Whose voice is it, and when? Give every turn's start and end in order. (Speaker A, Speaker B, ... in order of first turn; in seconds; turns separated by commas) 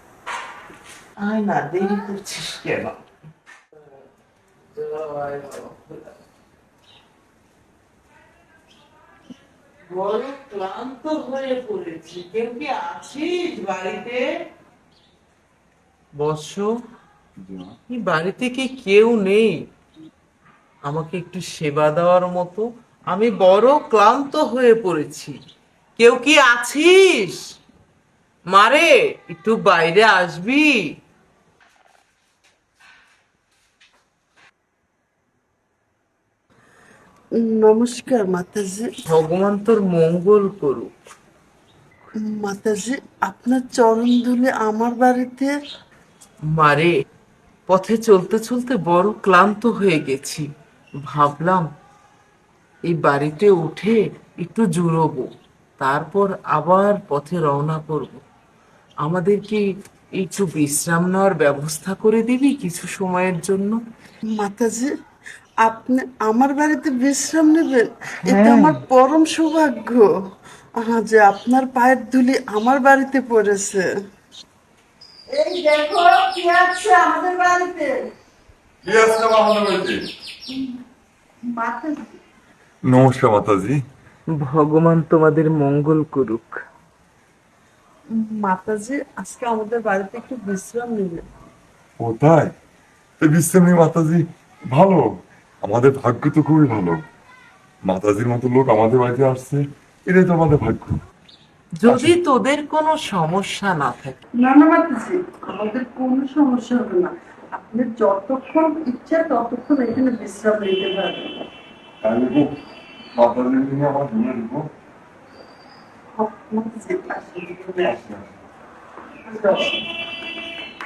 Speaker A: 1.2-3.0, Speaker A: 4.7-6.2, Speaker A: 9.9-14.2, Speaker A: 16.2-16.7, Speaker B: 17.4-17.7, Speaker A: 17.9-19.6, Speaker A: 20.9-25.4, Speaker A: 26.0-27.4, Speaker A: 28.5-30.8, Speaker C: 37.4-38.9, Speaker A: 39.1-40.9, Speaker C: 42.1-45.5, Speaker A: 46.5-46.9, Speaker A: 47.7-50.5, Speaker A: 51.0-51.7, Speaker A: 52.9-58.2, Speaker A: 59.0-59.6, Speaker A: 60.2-63.8, Speaker C: 64.3-64.9, Speaker C: 65.6-70.0, Speaker A: 68.2-68.8, Speaker C: 70.8-73.8, Speaker C: 75.3-78.0, Speaker B: 78.8-80.0, Speaker C: 80.5-80.8, Speaker C: 81.5-82.1, Speaker B: 82.8-83.8, Speaker A: 84.3-86.6, Speaker C: 88.1-91.2, Speaker B: 92.0-92.5, Speaker B: 93.2-95.0, Speaker B: 95.6-97.0, Speaker B: 97.8-101.0, Speaker A: 101.8-104.2, Speaker B: 101.8-102.2, Speaker C: 104.4-111.3, Speaker B: 112.0-112.5, Speaker B: 113.2-114.7, Speaker C: 116.2-117.9, Speaker B: 117.8-118.3, Speaker C: 119.3-119.8